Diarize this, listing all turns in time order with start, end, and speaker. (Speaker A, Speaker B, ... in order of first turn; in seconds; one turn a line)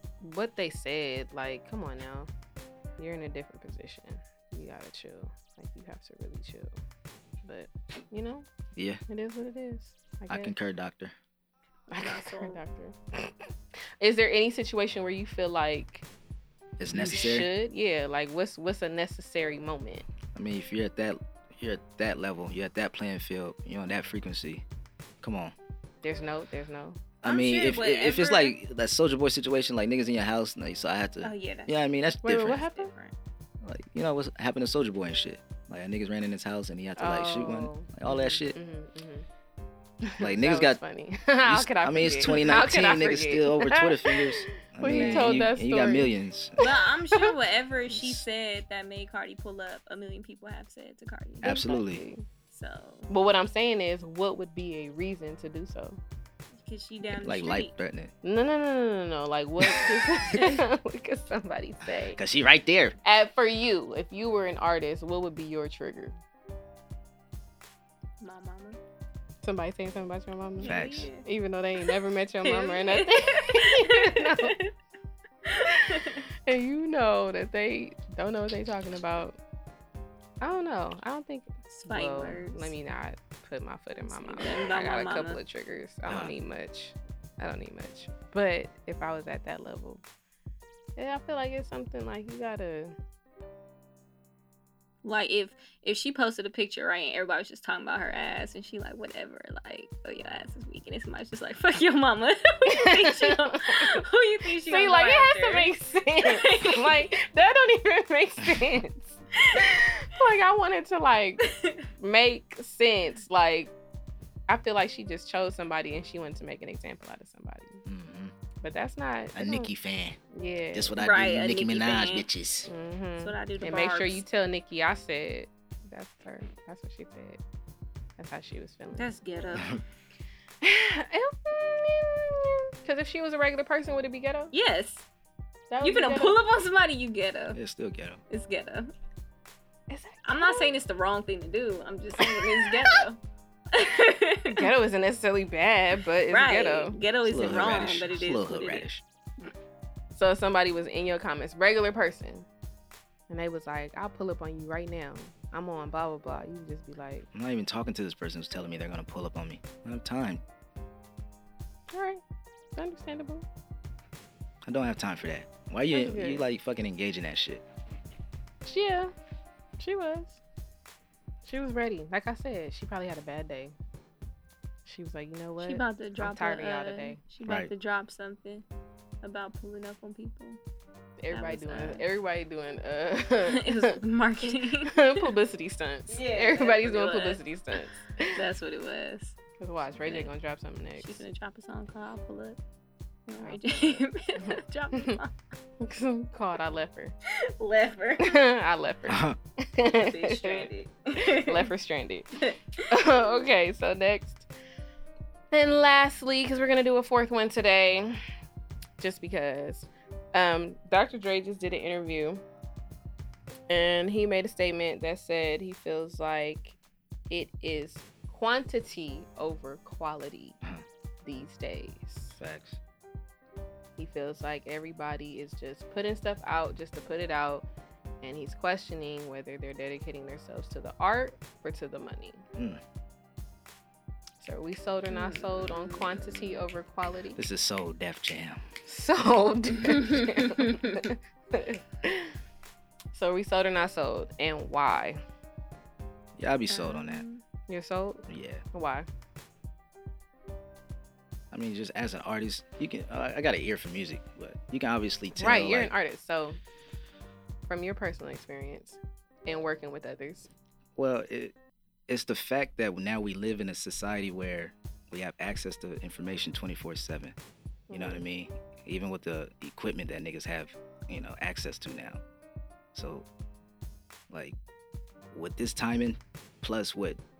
Speaker A: 0.2-2.3
Speaker A: 3.0-6.7
Speaker A: 7.4-8.5
Speaker B: 8.8-9.0
Speaker A: 9.1-10.5
Speaker B: 10.3-11.1
Speaker A: 11.9-16.1
Speaker C: 12.0-12.6
Speaker B: 16.8-17.5
Speaker A: 16.9-20.0
Speaker B: 20.3-24.6
Speaker B: 25.2-25.5
Speaker A: 26.0-27.0
Speaker B: 27.2-32.6
Speaker C: 27.2-28.5
Speaker C: 31.2-31.7
Speaker A: 32.2-32.9
Speaker C: 32.6-33.1
Speaker B: 33.6-38.6
Speaker A: 37.0-39.3
Speaker A: 40.0-47.3
Speaker B: 40.2-40.8
Speaker B: 41.4-46.6
Speaker C: 44.8-45.5
Speaker C: 46.6-51.6
Speaker B: 47.9-48.2
Speaker B: 51.4-52.0
Speaker A: 51.4-52.2
Speaker C: 52.5-53.1
Speaker A: 53.1-56.0
Speaker C: 56.5-57.7
Speaker B: 57.1-58.1
Speaker A: 58.2-62.2
Speaker C: 60.3-60.6
Speaker B: 62.1-63.0
Speaker A: 63.0-66.2
Speaker C: 68.2-68.8
Speaker A: 69.4-74.5
Speaker C: 70.6-71.2
Speaker B: 70.6-71.1
Speaker C: 71.9-74.7
Speaker C: 75.5-76.2
Speaker A: 75.7-79.4
Speaker A: 80.4-90.0
Speaker C: 81.7-82.7
Speaker C: 84.1-85.4
Speaker B: 86.1-86.3
Speaker A: 91.0-92.9
Speaker C: 95.0-105.7
Speaker A: 102.7-111.4
Speaker C: 106.2-107.0
Speaker C: 109.4-109.8
Speaker C: 111.4-111.9
Speaker A: 112.0-113.7
Speaker A: 114.5-117.8
Speaker B: 117.8-118.3
Speaker A: 118.6-119.7
Speaker B: 119.3-120.2
Speaker A: 120.3-121.0
Speaker B: 120.7-122.7
Speaker C: 121.0-122.3
Speaker A: 122.7-127.4
Speaker C: 123.2-124.2
Speaker A: 128.2-129.6
Speaker C: 129.0-129.7
Speaker B: 129.6-129.8
Speaker A: 130.6-134.5
Speaker C: 134.5-135.0
Speaker A: 135.7-136.4
Speaker C: 135.8-137.6
Speaker B: 137.5-138.2
Speaker C: 138.3-138.9
Speaker A: 139.9-140.7
Speaker C: 140.2-143.2
Speaker A: 142.2-143.0
Speaker C: 143.7-144.7
Speaker A: 144.5-147.0
Speaker C: 146.3-148.8
Speaker B: 147.2-149.0
Speaker A: 150.1-152.5
Speaker A: 153.3-157.3
Speaker B: 157.3-160.4
Speaker A: 161.9-162.2
Speaker A: 162.7-163.4
Speaker B: 164.6-167.6
Speaker A: 165.9-166.4
Speaker A: 168.6-169.1
Speaker A: 169.8-170.4
Speaker A: 171.4-173.7
Speaker A: 174.8-177.2
Speaker C: 175.6-178.6
Speaker B: 177.4-177.7
Speaker C: 179.2-180.6
Speaker A: 181.2-188.4
Speaker C: 181.3-182.1
Speaker C: 183.4-185.3
Speaker C: 186.1-189.3
Speaker A: 189.6-191.2
Speaker C: 190.0-190.3
Speaker C: 191.0-192.6
Speaker C: 193.3-195.3
Speaker A: 193.4-195.2
Speaker A: 195.8-197.1
Speaker C: 197.3-198.3
Speaker A: 198.2-204.5
Speaker B: 199.1-199.4
Speaker C: 199.9-201.7
Speaker C: 202.4-202.9
Speaker A: 205.5-208.2
Speaker A: 209.0-212.4
Speaker A: 213.7-216.8
Speaker A: 217.3-220.6
Speaker A: 221.2-222.4
Speaker B: 222.3-222.8
Speaker A: 224.0-227.7
Speaker A: 228.2-232.4
Speaker A: 234.4-237.4
Speaker C: 235.1-236.3
Speaker B: 237.3-238.6
Speaker A: 238.8-242.3
Speaker C: 239.8-241.0
Speaker A: 243.1-245.2
Speaker B: 246.4-247.2
Speaker C: 246.7-247.4
Speaker A: 247.7-249.1
Speaker B: 248.3-248.6
Speaker B: 251.5-255.9
Speaker A: 255.3-256.6
Speaker A: 257.7-260.5
Speaker B: 261.0-261.5
Speaker B: 262.1-267.3
Speaker A: 267.9-268.2
Speaker B: 267.9-272.2
Speaker B: 272.9-273.2
Speaker B: 274.3-274.6
Speaker B: 275.3-277.2